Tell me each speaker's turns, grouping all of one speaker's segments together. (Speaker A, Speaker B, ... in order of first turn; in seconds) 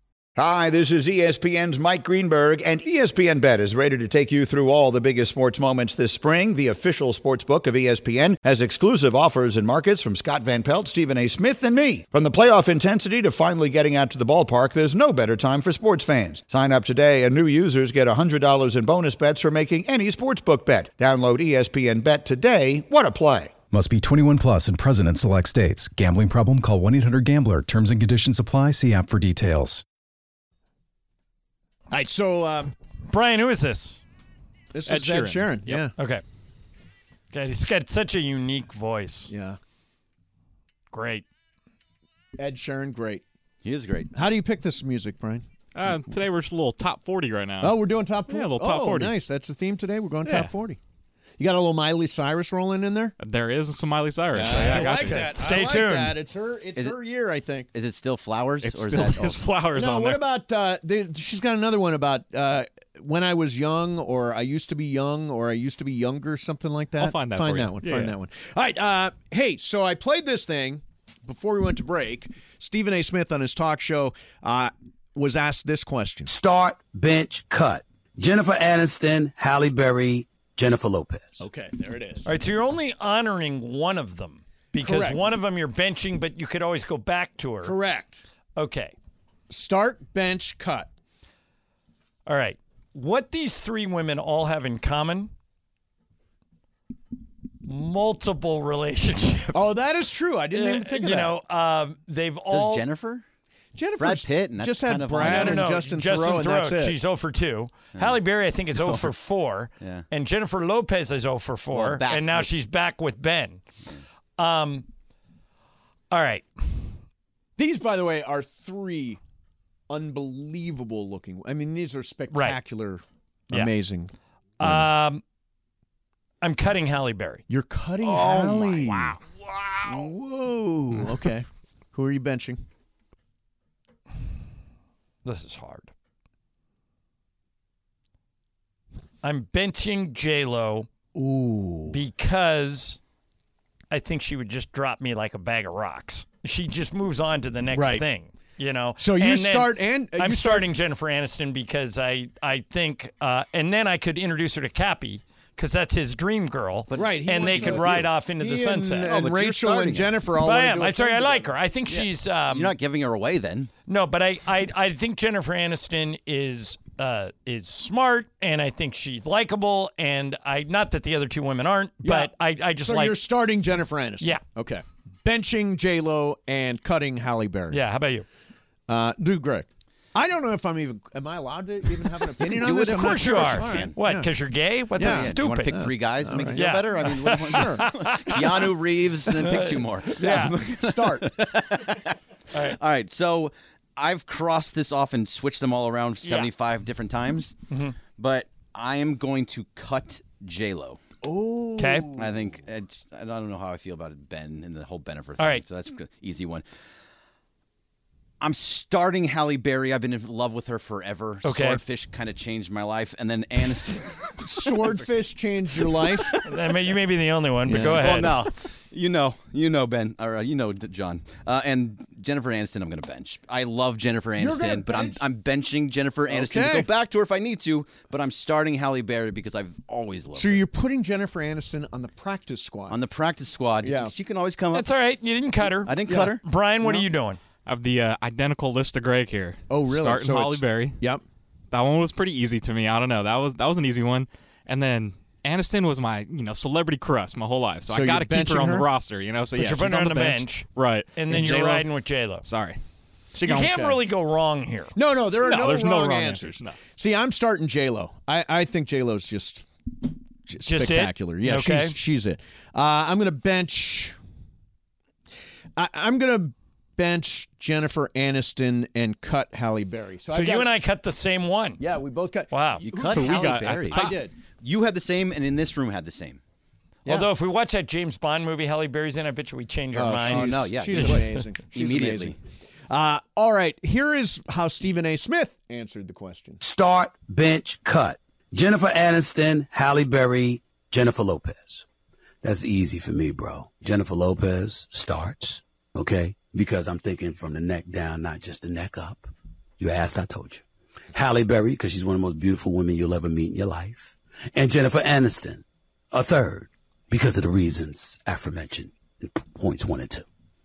Speaker A: 0.4-23.5
Speaker B: 23.7-29.8
Speaker C: 31.9-32.7, 34.7-35.9, 39.3-39.6, 42.4-43.2, 44.1-45.5, 47.6-50.8, 51.4-53.1, 54.3-57.7, 59.7-76.3, 81.4-82.3, 84.8-85.2, 87.6-88.2, 89.5-90.9, 99.5-101.3, 103.8-107.0, 117.6-119.2, 119.9-124.8, 127.5-129.2, 129.8-132.6, 141.1-142.0, 147.7-148.0, 149.0-150.7, 156.9-161.5, 172.0-177.8, 178.9-184.3, 185.0-187.9, 190.2-191.3, 201.2-202.5, 214.4-216.3, 224.4-225.2, 226.3-226.9, 230.3-233.0, 233.8-234.1, 236.1-237.1, 239.7-241.2, 247.9-248.9, 253.5-254.0, 254.9-259.7, 260.5-264.2, 265.8-270.7, 271.8-274.3, 279.9-282.4, 282.9-286.6
Speaker D: 33.1-34.0, 36.0-36.2, 37.3-39.3, 40.9-41.2, 54.5-56.2, 82.3-87.8, 88.6-88.9, 92.3-95.3, 97.7-99.8, 100.5-102.8, 105.2-113.6, 114.4-114.9, 116.1-116.9, 122.3-122.6, 124.6-125.2, 126.4-127.4, 128.1-129.2, 135.2-135.9, 139.2-140.9, 141.9-143.0, 143.9-159.1, 160.4-162.7, 163.9-173.2, 177.7-178.3, 182.7-185.8, 186.5-188.7, 189.4-190.6, 197.7-198.0, 201.8-202.1, 211.4-211.8, 216.4-218.4, 234.7-237.4, 249.6-252.4, 253.4-254.9, 260.6-262.0, 270.3-271.8, 272.5-272.8, 277.1-281.1
Speaker E: 34.9-35.9, 45.7-49.1, 50.2-50.5, 53.2-55.4, 58.6-60.2, 67.0-68.2, 237.7-241.0, 241.7-251.9, 252.4-252.8, 253.4-253.9, 255.4-256.8, 273.1-274.2
Speaker F: 43.6-44.1, 57.7-59.4, 102.5-103.2, 104.0-105.7, 108.8-109.1, 111.7-112.5, 156.9-158.0, 159.1-160.1, 162.5-163.7, 182.5-183.9, 185.0-197.6, 198.2-201.0, 202.2-206.7, 208.4-215.0, 215.8-216.4, 217.7-230.6, 232.9-234.9, 235.8-236.4, 272.8-274.1, 274.6-276.4, 280.2-282.4
Speaker G: 76.3-81.5, 286.6-291.9, 292.4-310.3